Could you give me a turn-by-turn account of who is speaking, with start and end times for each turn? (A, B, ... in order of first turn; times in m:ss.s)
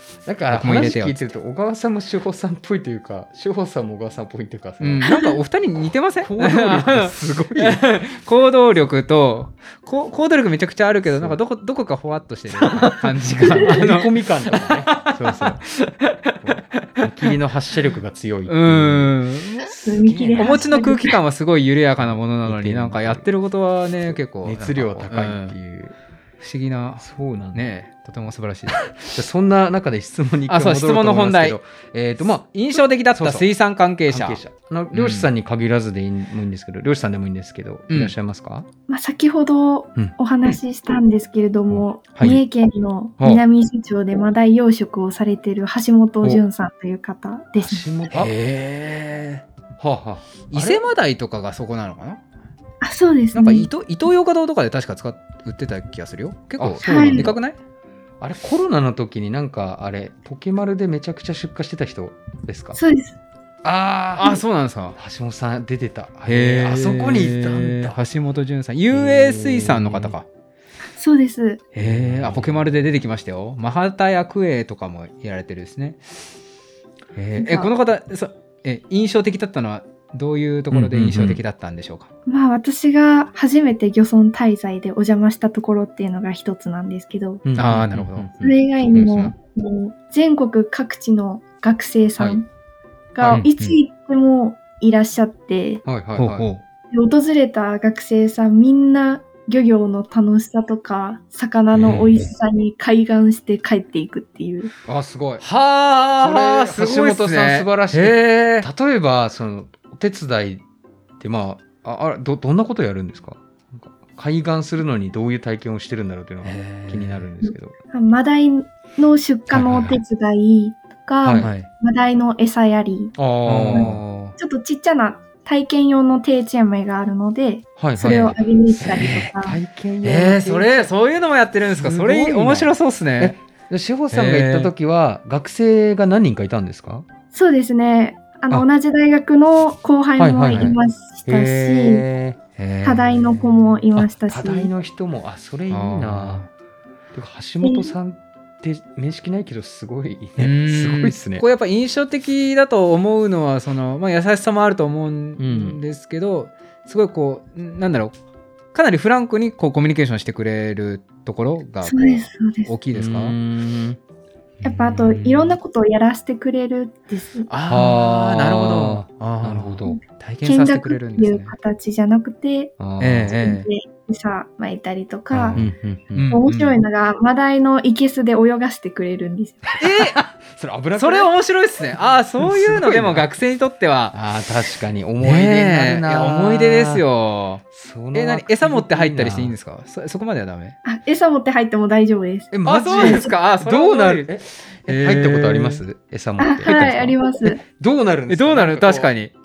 0:00.3-0:05.2 A
0:00.5-0:01.2 B
0:04.8-0:17.3 B
0:06.2-0:07.9 A
0:11.1-0:11.4 A
0:12.5-0:15.7 A
0:16.4-0:19.2 A
0:18.5-0:19.8 B
0:19.7-0:21.2 C
0:19.8-0:20.6 A
0:20.4-0:25.6 B
0:22.0-0:23.3 A
0:24.0-0:26.0 A
0:26.4-0:29.0 B
0:27.0-0:27.7 A
0:28.9-0:33.5 A
0:30.5-0:31.6 B
0:32.5-0:34.4 B
0:34.1-0:38.7 A
0:34.9-0:35.3 B
0:38.9-0:47.9 C
0:47.6-0:48.3 A
0:48.1-0:49.4 B
0:49.8-0:50.8 A
0:50.5-0:52.2 B
0:52.8-0:53.7 C
0:53.3-0:57.6 B
0:56.6-0:57.4 A
0:56.8-0:57.4 C
0:58.2-1:02.8 A
1:02.8-1:03.2 C
1:03.6-1:04.4 A
1:04.2-1:05.0 B
1:05.0-1:08.0 A
1:06.3-1:10.3 B
1:08.9-1:10.2 A
1:11.0-1:11.6 C
1:11.7-1:16.0 B
1:11.8-1:12.7 A
1:17.2-1:22.1 B
1:17.4-1:17.7 C
1:20.7-1:21.4 A
1:22.3-1:27.4 C
1:27.4-1:28.6 A
1:27.6-1:28.3 B
1:28.4-1:32.5 C
1:28.9-1:29.3 B
1:33.2-1:35.8 C
1:33.2-1:33.8 B
1:35.8-1:36.5 A
1:36.2-1:36.6 B
1:36.9-1:44.7 C
1:41.8-1:42.1 A
1:41.8-1:42.2 B
1:44.9-1:45.5 A
1:45.4-1:48.7 B
1:46.2-1:50.6 A
1:51.2-1:57.8 A
1:56.4-1:57.3 B
1:57.4-2:03.2 C
1:59.5-2:00.0 B
2:01.2-2:01.5 A
2:01.4-2:01.7 B
2:03.2-2:04.0 A
2:03.5-2:04.4 B
2:03.7-2:09.6 C
2:07.8-2:10.9 A
2:08.0-2:08.4 B
2:09.0-2:09.3 B
2:10.0-2:13.4 B
2:11.6-2:17.1 A
2:14.1-2:14.7 B
2:17.3-2:22.0 C
2:20.2-2:22.4 A
2:22.6-2:23.8 B
2:22.8-2:24.7 C
2:24.0-2:26.4 A
2:25.7-2:26.5 B
2:27.1-2:31.4 A
2:27.6-2:27.9 C
2:30.4-2:38.1 B
2:35.4-2:35.8 A
2:38.7-2:43.4 B
2:41.8-2:42.7 C
2:42.9-2:44.0 A
2:44.6-2:45.6 B
2:44.6-2:47.5 C
2:47.5-2:51.5 B
2:47.7-2:50.0 A
2:49.9-2:55.7 C
2:52.8-2:53.4 A
2:53.0-2:53.7 B
2:55.3-2:56.8 B
2:55.5-2:56.4 A
2:56.3-2:59.8 C
2:59.8-3:00.2 B
2:59.9-3:01.3 A
3:01.0-3:04.2 B
3:01.9-3:03.3 A
3:04.1-3:07.0 A
3:05.2-3:10.8 B
3:07.7-3:09.6 A
3:10.8-3:13.3 C
3:12.5-3:19.1 A
3:12.7-3:15.8 B
3:16.4-3:17.6 C
3:18.3-3:19.3 B